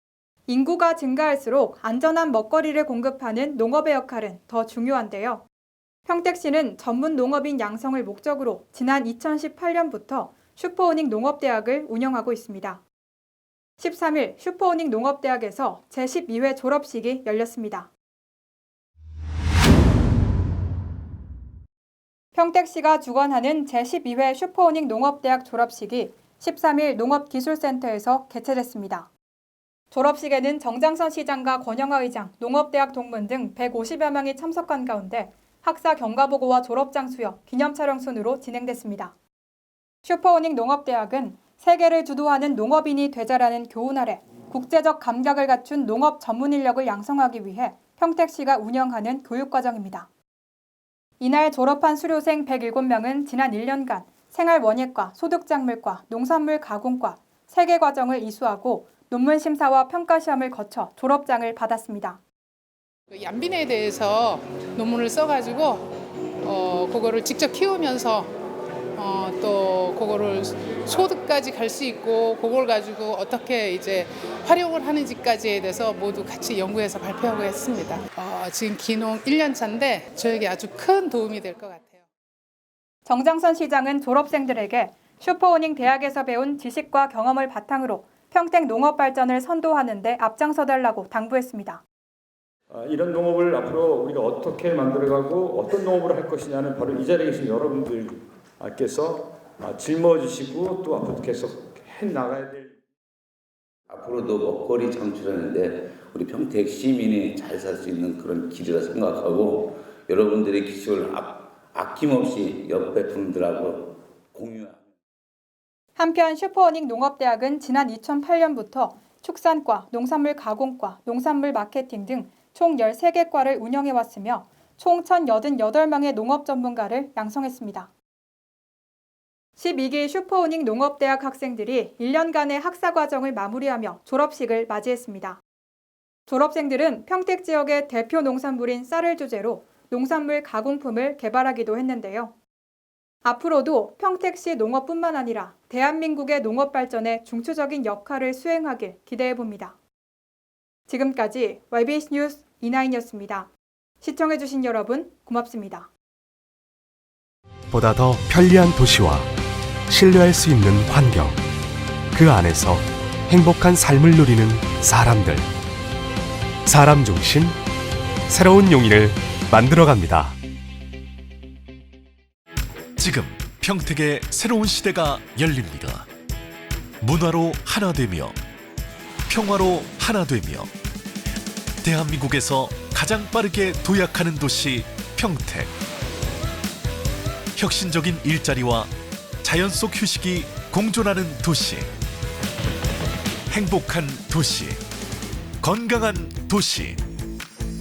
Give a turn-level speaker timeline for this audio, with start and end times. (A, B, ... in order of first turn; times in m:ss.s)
0:00.5-0:05.4 A
0:06.0-0:12.8 A
0:13.8-0:17.9 A
0:22.3-0:29.1 A
0:29.9-0:39.1 A
0:40.0-0:50.1 A
0:51.2-1:02.2 A
1:03.1-1:05.8 B
1:06.4-1:08.3 B
1:09.0-1:22.0 B
1:23.0-1:31.8 A
1:32.7-1:42.7 C
1:43.9-1:54.8 D
1:56.0-2:07.9 A
2:09.6-2:15.4 A
2:16.3-2:22.3 A
2:23.2-2:29.8 A
2:30.9-2:33.5 A
2:34.0-2:35.9 A
2:37.7-2:39.3 E
2:39.9-2:41.4 E
2:42.1-2:45.5 E
2:46.6-2:47.6 E
2:48.3-2:50.4 E
2:53.0-2:56.1 F
2:57.0-2:58.4 F
2:59.3-3:00.7 F
3:01.8-3:05.7 F
3:07.5-3:08.9 F
3:09.4-3:11.9 F
3:13.5-3:14.8 F
3:15.6-3:17.0 F